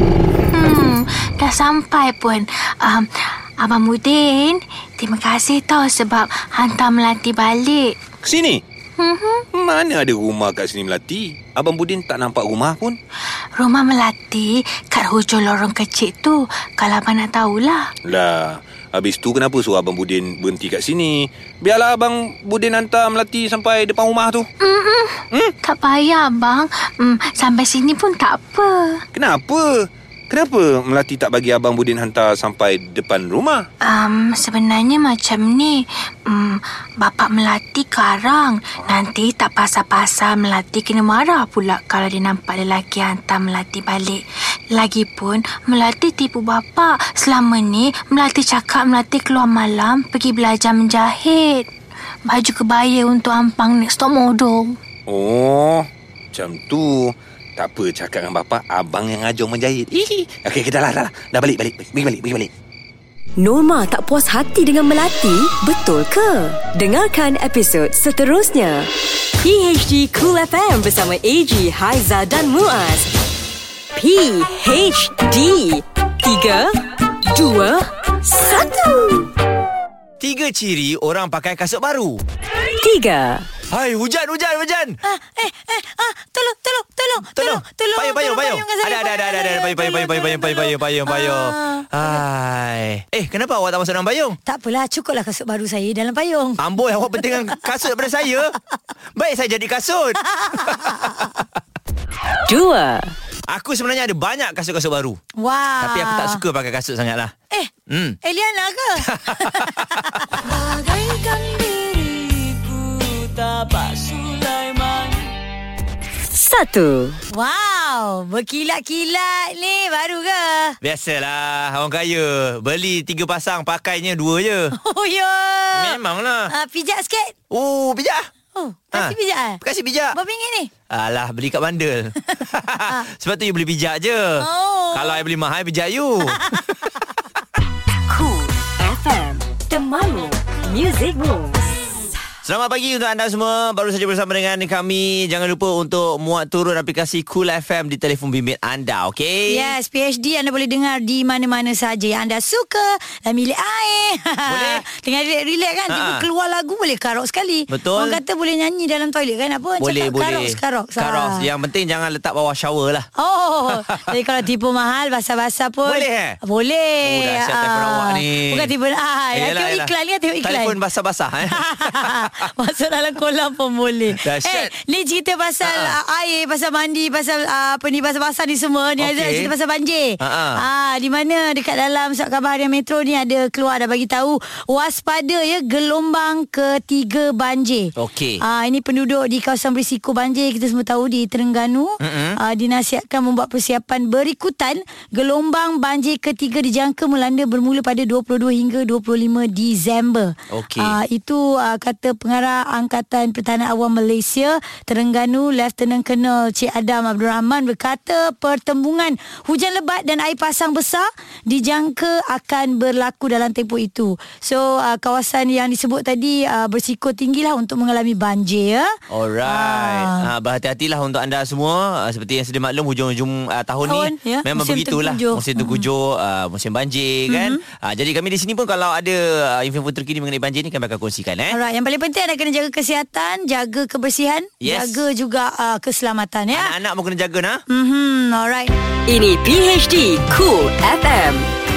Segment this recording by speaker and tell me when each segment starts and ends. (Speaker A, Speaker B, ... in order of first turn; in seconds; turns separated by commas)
Speaker A: 0.5-8.0, Speaker B: 8.2-8.6, Speaker A: 9.0-9.5, Speaker B: 9.5-13.0, Speaker A: 13.6-17.9, Speaker B: 18.1-24.5, Speaker A: 24.6-29.0, Speaker B: 29.1-33.6, Speaker A: 33.8-51.7, Speaker A: 52.3-54.8, Speaker B: 55.1-62.5, Speaker C: 63.4-73.1, Speaker C: 74.0-79.3, Speaker D: 80.2-82.2, Speaker C: 82.8-83.5, Speaker D: 83.7-85.0, Speaker E: 85.0-92.2, Speaker D: 87.3-94.4, Speaker E: 94.5-96.6, Speaker D: 96.6-98.6, Speaker E: 97.2-97.6, Speaker D: 99.2-101.4, Speaker E: 100.3-101.3, Speaker C: 102.5-103.1, Speaker D: 103.5-105.2, Speaker E: 105.4-106.4, Speaker D: 105.8-107.3, Speaker D: 107.9-108.2, Speaker E: 108.2-110.4, Speaker D: 109.0-110.3, Speaker C: 110.5-115.2, Speaker C: 116.3-117.2, Speaker E: 117.3-120.8, Speaker D: 120.8-124.8, Speaker E: 124.7-126.0, Speaker D: 125.8-126.5, Speaker E: 126.5-127.3, Speaker D: 127.5-128.3, Speaker E: 128.5-129.6, Speaker D: 128.9-130.2, Speaker E: 130.1-130.7, Speaker D: 130.9-136.9, Speaker E: 134.4-135.2, Speaker C: 138.1-141.7, Speaker D: 142.4-149.7, Speaker E: 149.5-161.5, Speaker D: 154.5-154.8, Speaker D: 155.9-156.2, Speaker D: 157.7-158.2, Speaker D: 159.8-163.1, Speaker E: 163.2-170.8, Speaker D: 163.7-164.1, Speaker D: 165.8-166.4, Speaker D: 167.0-168.7, Speaker D: 169.3-169.9, Speaker D: 170.4-172.5, Speaker E: 171.5-220.3, Speaker D: 174.1-174.7, Speaker D: 175.6-176.0, Speaker D: 179.0-179.5, Speaker D: 180.2-180.6, Speaker D: 188.0-188.4, Speaker D: 192.0-192.4, Speaker D: 200.5-201.0, Speaker D: 219.1-231.6, Speaker E: 223.8-225.9, Speaker E: 227.3-227.6, Speaker E: 231.5-236.7, Speaker D: 234.6-235.0, Speaker D: 236.5-237.6, Speaker E: 237.7-238.7, Speaker C: 239.1-241.5